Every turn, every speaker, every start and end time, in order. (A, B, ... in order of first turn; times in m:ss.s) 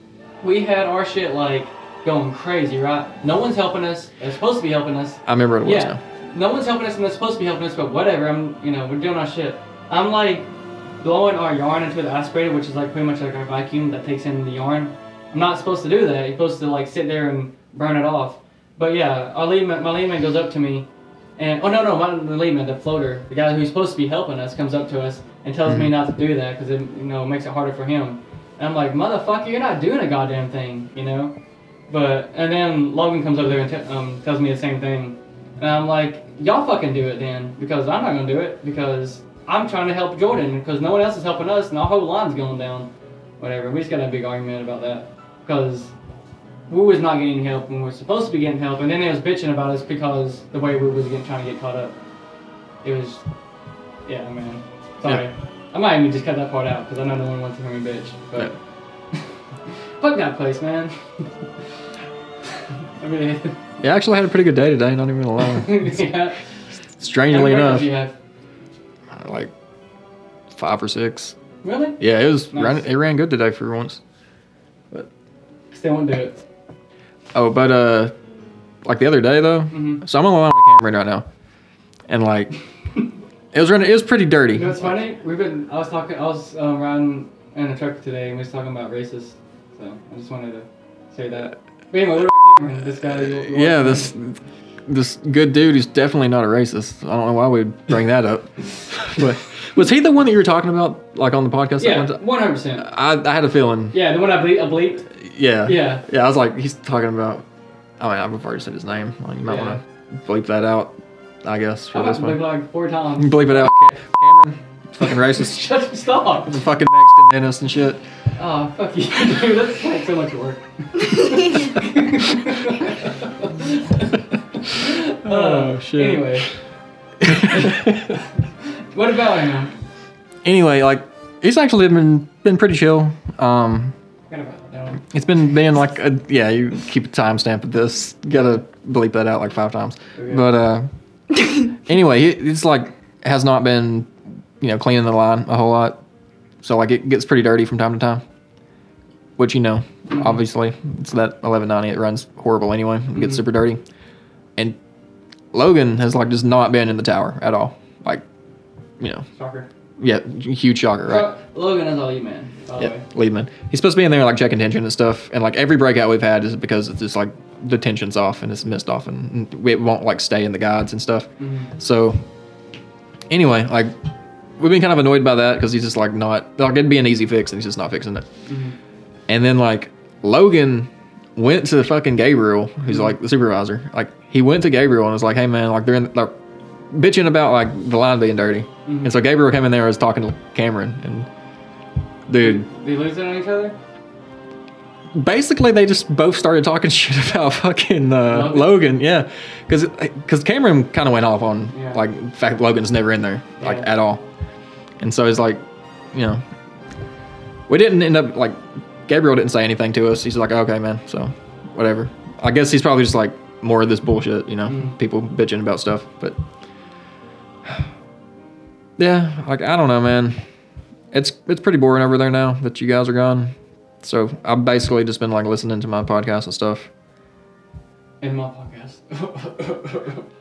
0:00.4-0:10.5 A
0:05.2-0:06.0 B
0:11.0-0:31.3 A
0:31.9-0:45.9 A
0:46.7-0:52.0 A
0:52.8-0:53.2 A
0:54.0-0:58.6 A
1:00.0-1:01.3 A
1:03.0-1:03.6 A
1:03.8-1:06.0 B
1:05.4-1:06.4 A
1:07.0-1:07.9 B
1:07.3-1:08.2 A
1:09.1-1:09.5 B
1:10.5-1:11.4 B
1:11.6-1:12.9 A
1:12.0-1:14.0 B
1:15.7-1:16.4 A
1:17.3-1:18.1 B
1:18.8-1:21.3 B
1:19.7-1:20.0 A
1:22.1-1:22.5 B
1:23.5-1:25.0 B
1:24.5-1:34.1 A
1:33.0-1:42.2 B
1:41.8-1:42.9 A
1:42.8-1:44.0 B
1:43.9-1:45.1 A
1:45.2-1:47.4 B
1:45.6-1:46.0 A
1:48.0-1:52.4 B
1:49.4-1:49.8 A
1:51.9-1:53.7 A
1:53.2-1:55.7 B
1:55.0-1:56.6 A
1:56.4-1:58.0 B
1:58.4-2:06.5 A
2:05.1-2:06.4 B
2:07.2-2:08.2 B
2:07.3-2:08.3 A
2:08.9-2:09.7 A
2:10.4-2:13.9 B
2:14.3-2:15.1 A
2:15.1-2:26.0 B
2:20.1-2:20.5 A
2:26.6-2:28.2 B
2:29.4-2:33.8 B
2:30.1-2:30.4 A
2:33.1-2:33.4 A
2:35.5-2:38.2 B
2:39.0-2:39.2 B
2:39.3-2:39.7 A
2:40.0-2:41.3 B
2:41.1-2:43.0 A
2:42.8-2:52.2 B
2:51.4-2:51.7 A
2:53.3-2:53.9 B
2:54.6-2:58.3 B
2:58.5-2:58.8 A
2:59.3-3:06.3 B
3:06.9-3:11.3 B
3:08.8-3:09.2 A
3:12.3-3:12.7 B
3:12.4-3:13.8 A
3:15.1-3:24.2 B
3:18.3-3:19.0 A
3:21.7-3:22.0 A
3:23.6-3:23.9 A
3:25.0-3:25.6 B
3:26.1-3:26.4 B
3:27.7-3:36.4 B
3:34.7-3:35.0 A
3:39.0-3:40.4 B
3:41.1-3:46.9 B
3:48.2-3:50.3 A